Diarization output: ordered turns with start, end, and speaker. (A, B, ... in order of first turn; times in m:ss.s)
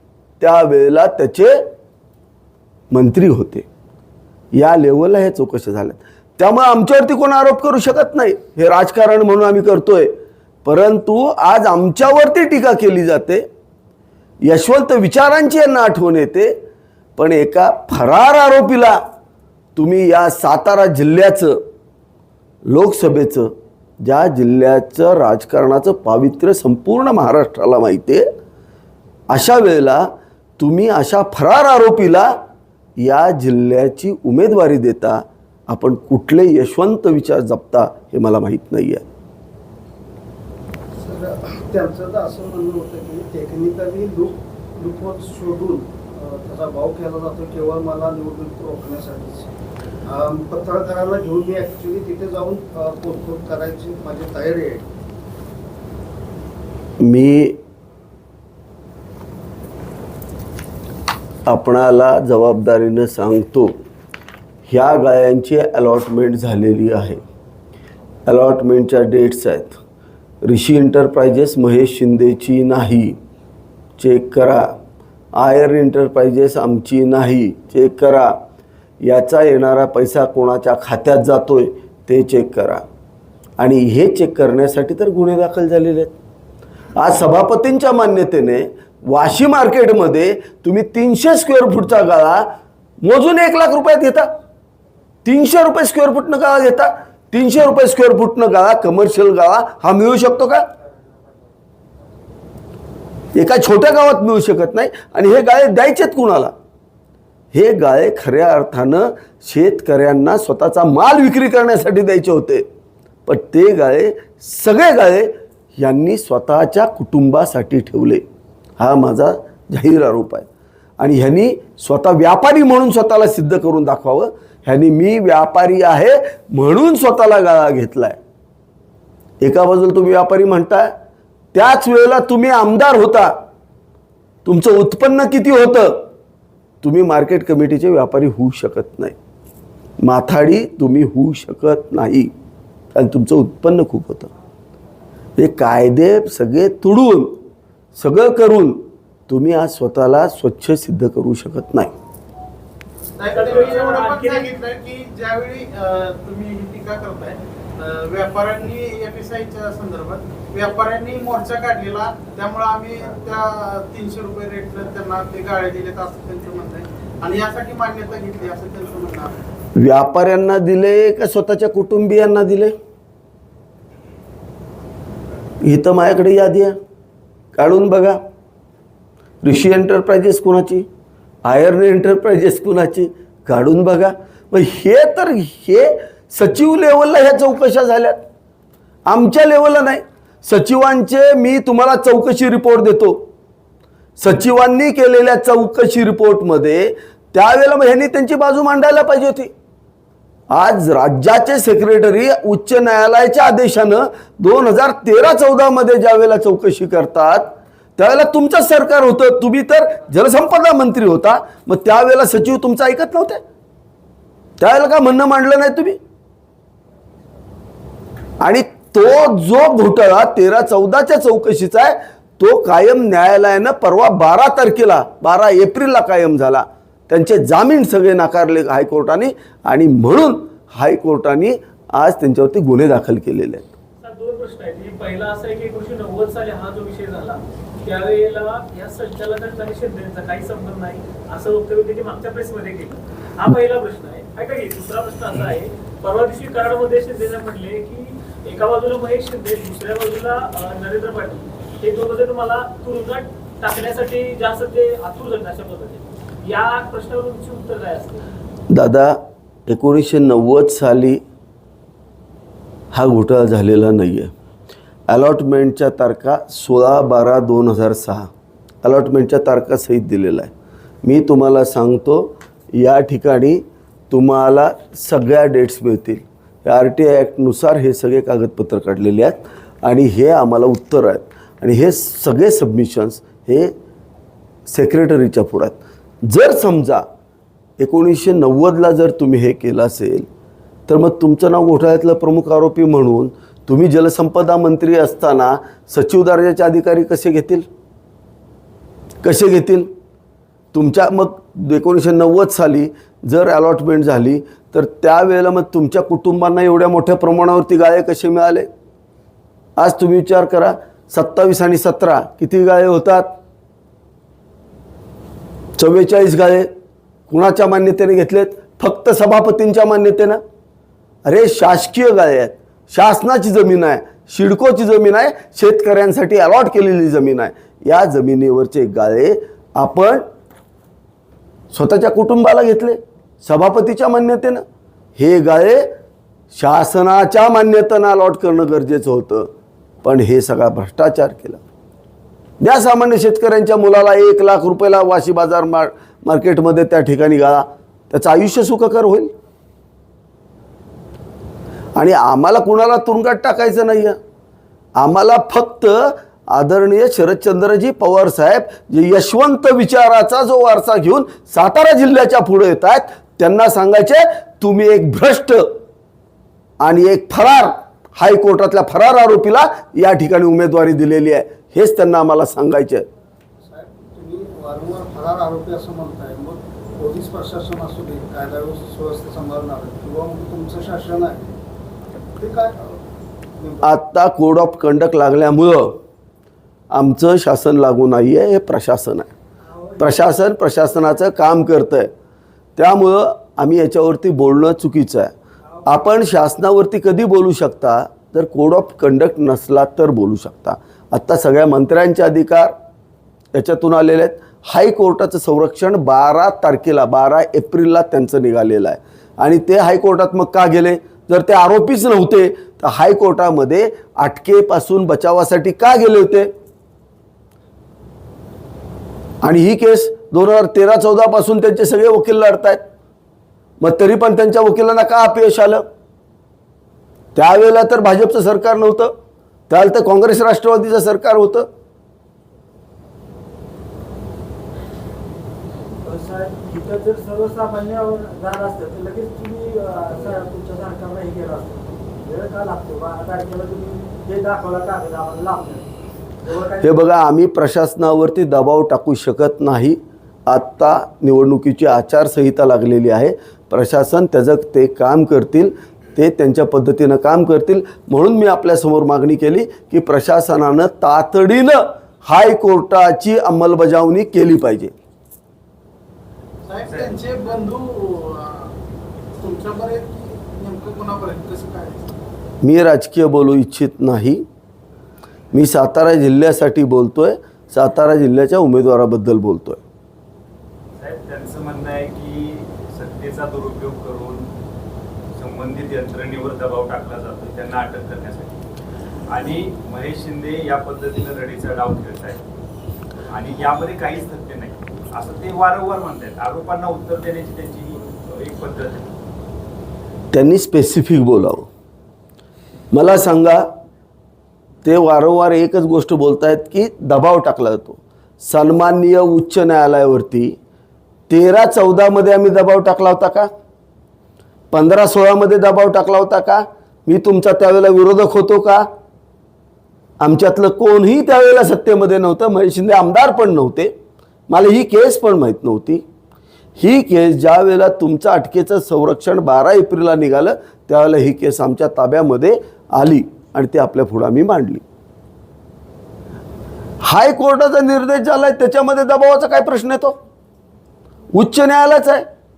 0:00.4-0:01.7 A
0:02.9-0:03.6 A
0:04.5-0:10.1 A
0:10.6-0:13.4 A
0:14.4-0:16.6 A
0:17.2-0:19.0 A
0:19.8-0:21.6 A
0:22.7-0:28.2 A
0:29.3-0:32.4 A
0:33.0-0:39.0 A
0:41.0-0:49.5 B
0:50.0-0:54.8 B
0:57.0-0:57.6 A
1:01.5-1:03.7 A
1:04.7-1:07.2 A
1:08.3-1:09.8 A
1:10.4-1:13.2 A
1:14.0-1:14.7 A
1:15.4-1:18.4 A
1:19.0-1:22.8 A
1:23.6-1:26.1 A
1:27.0-1:34.3 A
1:35.2-1:40.7 A
1:43.3-1:46.5 A
1:47.5-1:52.6 A
1:53.2-1:58.2 A
1:58.8-2:00.5 A
2:01.0-2:08.2 A
2:09.4-2:10.9 A
2:11.5-2:13.4 A
2:14.4-2:16.1 A
2:16.8-2:19.2 A
2:20.0-2:22.3 A
2:22.9-2:24.3 A
2:25.4-2:27.4 A
2:28.0-2:31.9 A
2:33.2-2:49.3 C
2:33.3-2:34.5 D
2:49.8-2:52.7 A
2:55.6-2:56.8 A
2:57.6-2:58.2 A
2:59.4-3:00.9 A
3:01.4-3:08.2 A
3:09.1-3:13.3 A
3:14.2-3:19.5 A
3:20.5-3:33.4 A
3:34.6-3:36.0 A
3:38.4-3:53.7 A
3:54.0-4:18.2 D
4:18.7-4:21.2 A
4:22.9-4:24.3 A
4:25.1-4:28.3 A
4:28.8-4:30.5 A
4:31.0-4:43.7 A
4:44.7-4:47.0 A
4:47.8-4:50.3 A
4:50.9-4:57.6 A
4:59.2-4:59.9 A
5:00.7-5:08.7 A
5:09.8-5:13.3 A
5:15.8-5:16.7 A
5:17.3-5:20.4 A
5:21.2-5:30.2 A
5:31.7-5:34.6 A
5:35.2-5:35.9 A
5:36.5-5:39.5 A
5:40.0-5:41.6 A
5:42.6-5:49.3 A
5:52.0-5:54.2 A
5:55.0-6:05.7 A
6:06.8-6:13.1 A
6:13.6-6:21.5 B
6:22.4-6:23.0 B
6:23.6-6:23.8 B
6:23.8-6:26.0 A
6:26.9-6:29.3 A
6:29.7-6:30.2 E
6:30.0-6:32.1 A
6:32.8-6:35.3 A
6:35.8-6:42.7 A
6:43.5-6:56.5 A
6:59.4-7:02.8 A
7:03.8-7:05.8 A
7:07.3-7:09.1 A
7:09.7-7:11.7 A
7:16.0-7:27.0 E
7:26.8-7:44.9 A
7:46.6-7:48.7 C
7:46.9-7:47.2 F
7:49.4-7:52.1 C
7:52.6-7:54.4 A
7:55.5-7:59.8 A
8:01.0-8:04.5 F
8:05.3-8:08.6 F
8:09.3-8:12.4 F
8:13.3-8:19.1 F
8:20.3-8:21.7 A
8:22.9-8:23.7 A
8:24.8-8:30.6 A
8:31.3-8:33.5 A
8:34.7-8:38.9 A
8:40.2-8:43.9 A
8:44.5-8:46.0 A
8:46.8-8:54.8 A
8:57.0-9:00.2 A
9:01.3-9:02.2 A